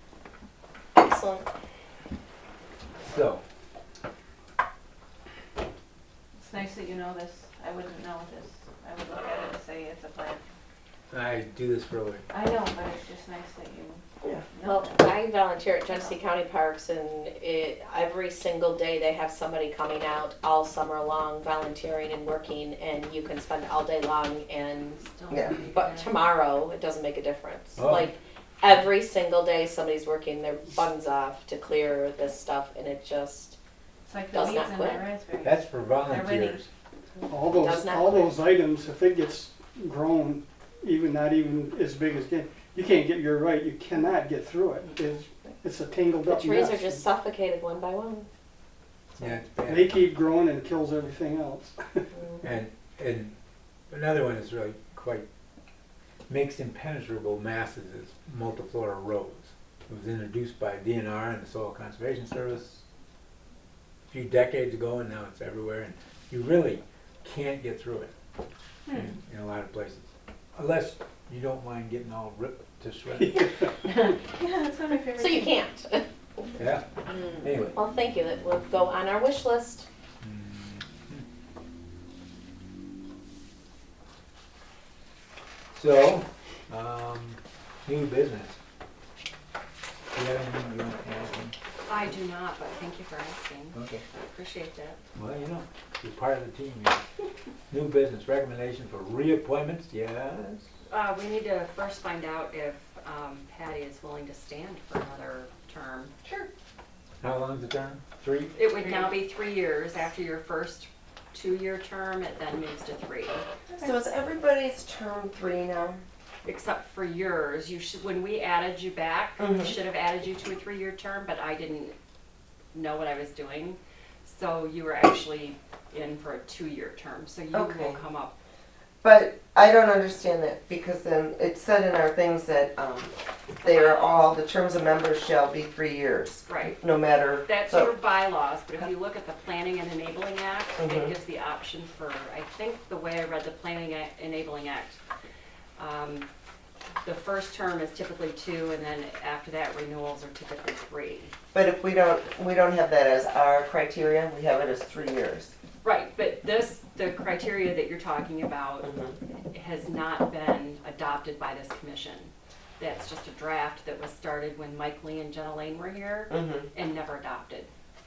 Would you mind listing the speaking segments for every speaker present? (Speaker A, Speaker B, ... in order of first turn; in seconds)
Speaker A: 0.9-1.4, 14.6-25.0, 25.6-33.6, 34.3-35.1, 37.5-38.4, 46.2-48.3, 75.0-76.5, 77.1-79.9
Speaker B: 3.0-3.4, 11.1-12.2, 27.8-28.1, 35.4-36.7, 49.1-50.0, 52.4-53.3, 53.9-55.2, 56.3-62.8, 64.1-68.1, 68.9-73.5, 76.6-76.8, 77.4-77.8, 80.2-81.2, 85.7-88.6, 90.1-91.5, 93.7-94.0, 95.1-97.0, 97.7-100.7, 107.2-108.6
Speaker C: 6.4-10.4, 12.3-14.0, 14.5-15.0, 34.0-35.5, 36.1-36.6, 74.1-75.6
Speaker D: 25.0-26.2, 91.9-93.8, 94.3-95.0, 100.9-106.1, 108.5-113.4, 116.4-121.9, 122.7-128.3, 133.6-134.3, 136.5-136.8, 137.4-145.0, 145.8-146.3, 147.0-151.3, 155.8-158.9, 159.5-167.7
Speaker E: 25.3-25.6, 113.8-116.0, 119.4-119.8, 127.5-128.0, 129.0-137.9, 140.8-141.1, 151.5-155.5, 158.8-159.2, 166.3-166.7
Speaker F: 37.3-47.0, 49.7-52.1, 73.2-73.7